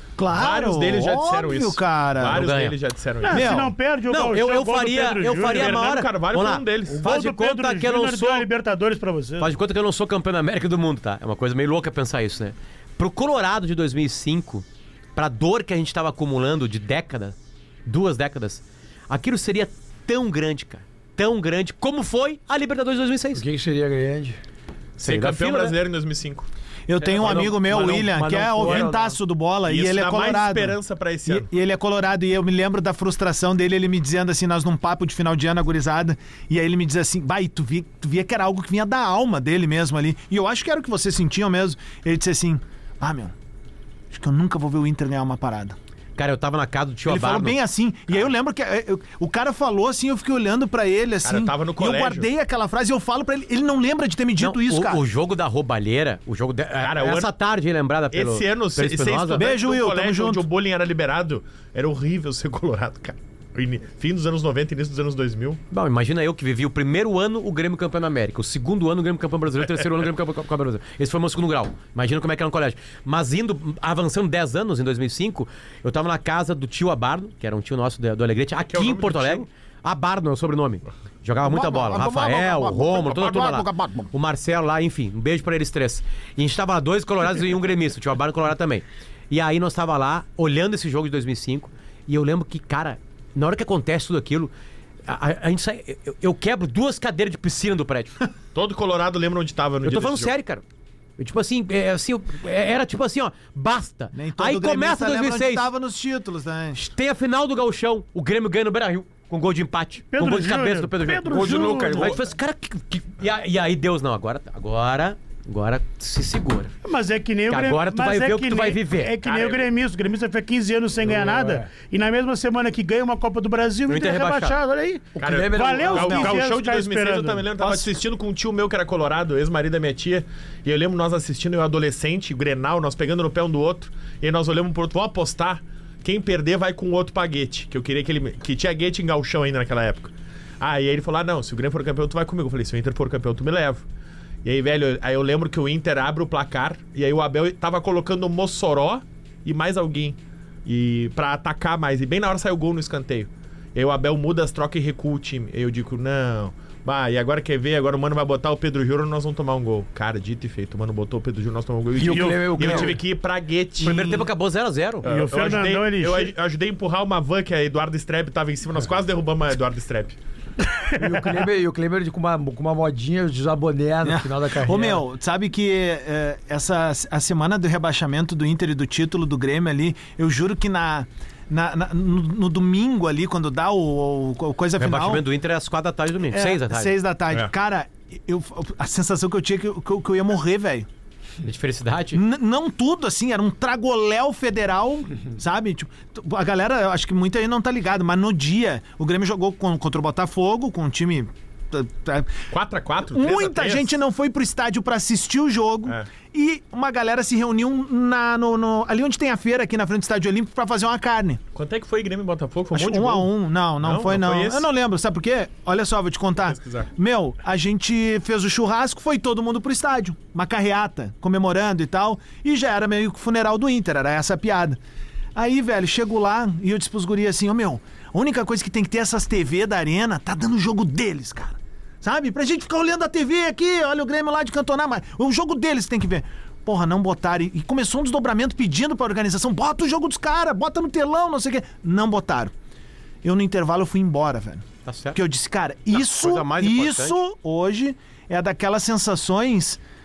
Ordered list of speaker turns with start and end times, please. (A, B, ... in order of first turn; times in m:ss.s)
0:00.2-0:02.5 A
0:00.3-0:03.6 B
0:02.3-0:02.8 C
0:03.2-0:06.0 D
0:03.3-0:03.7 A
0:04.1-0:08.5 C
0:05.5-0:07.1 B
0:06.9-0:09.5 D
0:09.4-0:14.6 C
0:15.2-0:17.4 C
0:17.9-0:23.4 C
0:23.4-0:24.4 E
0:25.0-0:26.5 B
0:25.0-0:25.8 C
0:26.9-0:43.3 A
0:27.1-0:29.2 E
0:28.6-0:28.9 B
0:29.7-0:31.5 B
0:44.1-0:45.8 A
0:46.2-0:47.6 C
0:47.0-0:55.0 A
0:51.2-0:52.3 B
0:54.4-0:59.5 C
0:56.8-0:57.3 B
0:58.1-1:05.6 B
0:59.4-1:00.5 A
1:05.7-1:34.5 C
1:18.6-1:19.5 B
1:21.5-1:24.1 A
1:35.1-1:38.2 C
1:38.6-1:40.3 B
1:39.8-1:40.6 C
1:41.2-1:45.7 C
1:44.1-1:46.8 A
1:46.8-1:56.7 C
1:50.1-1:52.2 D
1:51.3-1:52.2 E
1:56.8-2:07.7 D
1:57.5-1:59.2 C
1:59.2-1:59.7 B
2:01.0-2:01.7 E
2:03.9-2:04.6 C
2:05.2-2:06.4 E
2:05.2-2:23.8 B
2:06.1-2:06.3 A
2:24.4-2:44.3 B
2:42.0-2:43.0 E
2:42.1-2:42.9 D
2:43.8-2:45.1 C
2:45.0-2:50.2 B
2:45.0-2:46.3 D
2:51.0-2:55.0 E
2:54.0-3:05.3 A
3:04.8-3:07.0 C
3:06.3-3:10.9 A
3:11.4-3:12.2 C
3:12.1-3:22.4 A
3:22.5-3:24.0 B
3:23.1-3:31.4 A
3:31.6-3:34.7 B
3:32.7-3:44.8 A
3:36.5-3:36.9 B
3:45.4-4:02.5 A
4:03.2-4:09.8 A
4:04.8-4:05.2 C
4:05.9-4:07.2 C